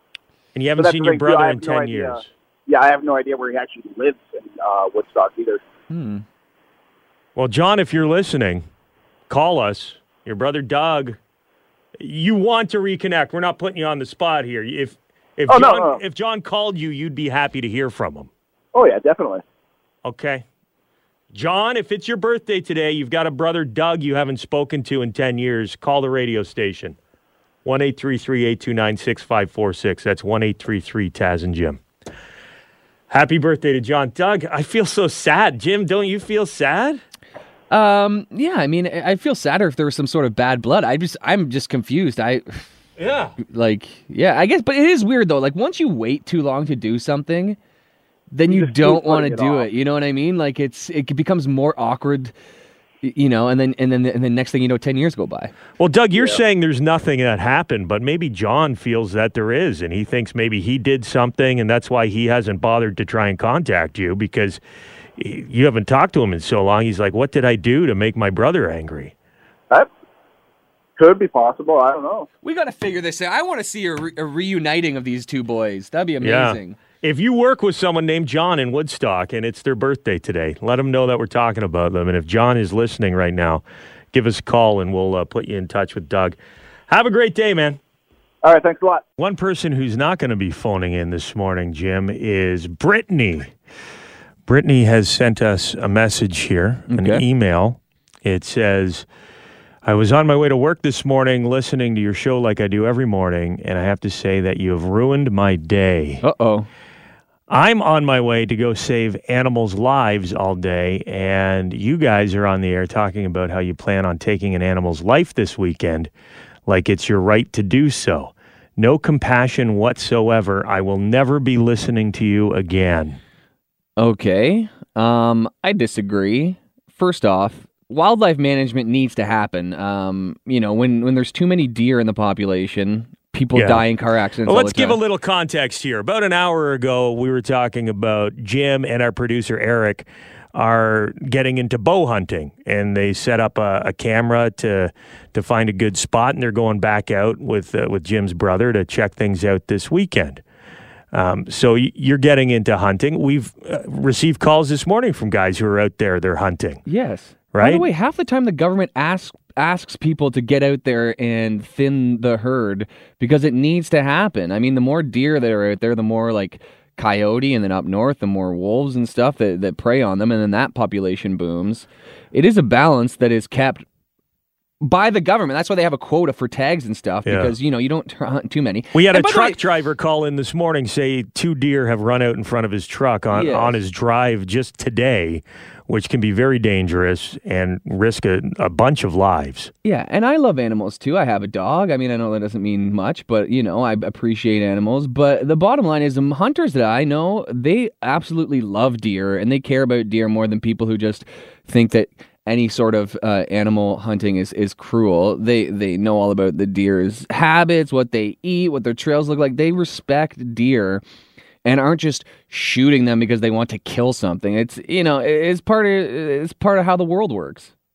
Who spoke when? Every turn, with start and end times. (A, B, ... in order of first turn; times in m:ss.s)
0:00.6-0:02.3 A
0:00.8-0:05.6 B
0:05.9-0:06.2 C
0:07.4-0:08.6 A
0:09.3-0:11.2 A
0:12.0-0:18.3 A
0:15.5-0:16.0 B
0:18.7-0:19.4 B
0:20.0-0:20.4 A
0:21.3-0:27.0 A
0:27.6-0:31.8 A
0:33.1-0:37.0 A
0:37.7-0:42.6 C
0:43.0-0:43.3 A
0:43.4-0:47.6 C
0:48.3-0:52.3 C
0:48.5-0:49.7 B
0:53.0-0:55.5 C
0:55.8-1:04.6 A
1:05.2-1:09.1 A
1:11.0-1:12.3 B
1:12.4-1:16.8 C
1:16.2-1:26.4 A
1:26.9-1:27.8 A
1:28.4-1:29.0 B
1:29.2-1:33.5 A
1:34.5-1:39.1 A
1:36.9-1:37.2 C
1:39.8-1:46.2 A
1:46.2-1:46.7 C
1:47.5-1:56.1 A
1:56.7-2:03.2 A
2:04.0-2:15.0 C
2:13.5-2:13.9 A
2:14.4-2:30.4 A
2:31.1-2:36.8 A
2:36.9-2:53.8 C
2:37.5-2:37.9 A
2:54.8-2:59.6 C
2:57.3-2:57.6 A
2:58.9-3:09.7 A
3:03.3-3:03.8 C
3:09.8-3:31.0 C
3:31.6-3:37.7 C